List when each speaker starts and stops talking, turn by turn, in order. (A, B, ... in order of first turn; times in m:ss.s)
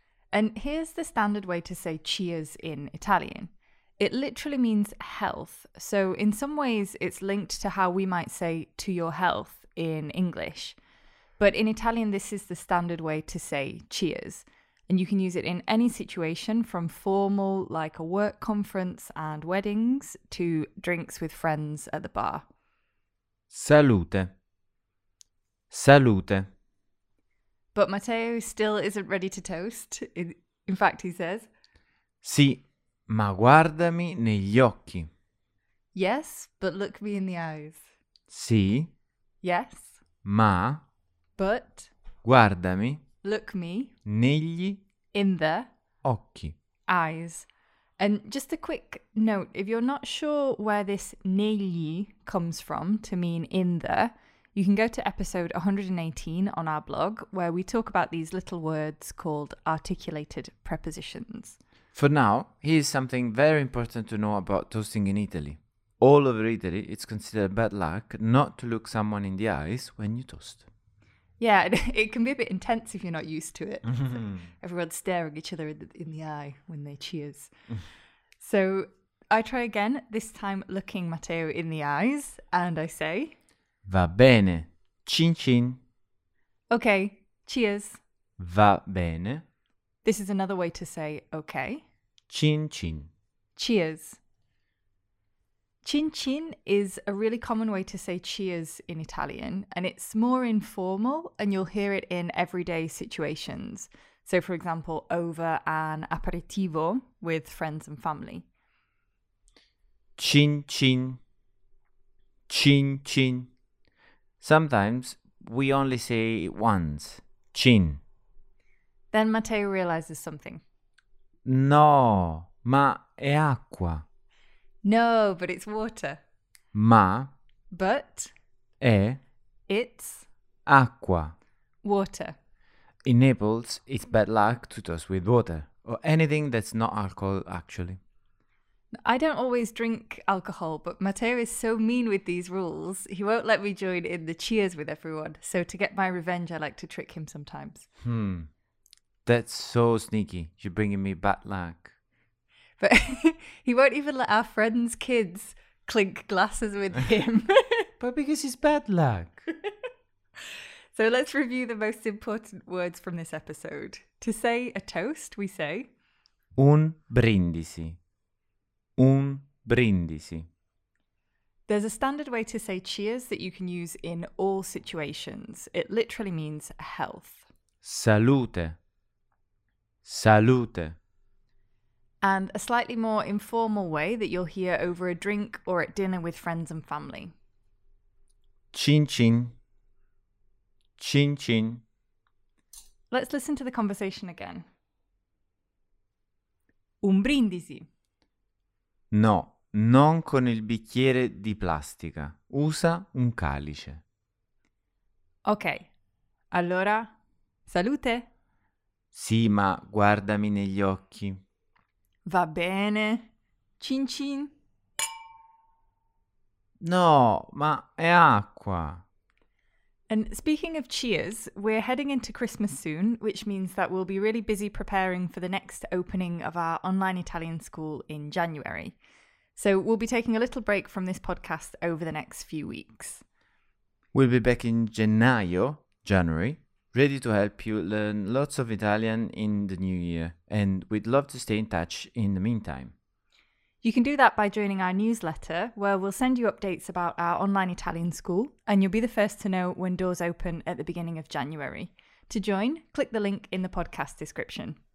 0:00.3-0:10.8 A
0:11.4-0:22.4 A
0:23.5-0:24.3 B
0:25.7-0:26.4 B
0:27.7-0:31.5 A
0:32.2-0:35.1 B
0:35.9-0:37.8 A
0:38.3-0:38.9 B
0:39.4-0:40.0 A
0:40.2-0:40.8 B
0:41.4-0:41.9 A
0:42.2-0:43.0 B
0:43.2-0:43.9 A
0:44.0-0:44.8 B
0:45.1-0:45.7 A
0:46.0-0:46.6 B
0:46.9-0:47.5 A
0:48.0-1:01.6 A
1:01.9-1:10.7 B
1:11.4-1:17.5 A
1:13.9-1:14.4 B
1:18.4-1:23.3 A
1:23.8-1:25.8 B
1:26.7-1:28.0 A
1:28.4-1:29.4 B
1:30.0-1:31.8 A
1:32.3-1:33.1 B
1:33.6-1:34.2 A
1:35.8-1:48.5 A
1:50.2-1:51.2 B
1:52.5-1:53.5 B
1:54.4-1:58.0 B
1:59.1-2:00.6 A
2:01.4-2:04.0 B
2:04.8-2:06.2 A
2:06.7-2:07.3 B
2:07.7-2:08.3 A
2:08.8-2:09.2 B
2:09.7-2:10.3 A
2:10.6-2:11.3 B
2:11.8-2:12.4 A
2:13.0-2:18.0 B
2:19.0-2:27.9 A
2:28.0-2:28.5 B
2:29.2-2:31.9 B
2:32.8-2:37.9 A
2:38.0-2:39.4 B
2:40.9-2:45.9 A
2:46.6-2:48.0 B
2:49.0-2:50.5 B
2:51.7-2:57.4 A
2:57.8-2:58.8 B
3:00.0-3:01.0 B
3:02.2-3:07.3 A
3:08.7-3:09.6 B
3:11.0-3:11.8 B
3:13.1-3:14.6 A
3:17.0-3:17.9 A
3:19.1-3:24.0 B
3:25.4-3:25.9 A
3:26.5-3:27.1 A
3:27.6-3:28.3 A
3:29.1-3:31.4 B
3:32.2-3:34.5 A
3:36.8-3:39.0 B
3:40.1-3:49.0 A
3:49.6-3:53.2 A
3:54.1-4:02.9 B
4:03.8-4:14.8 A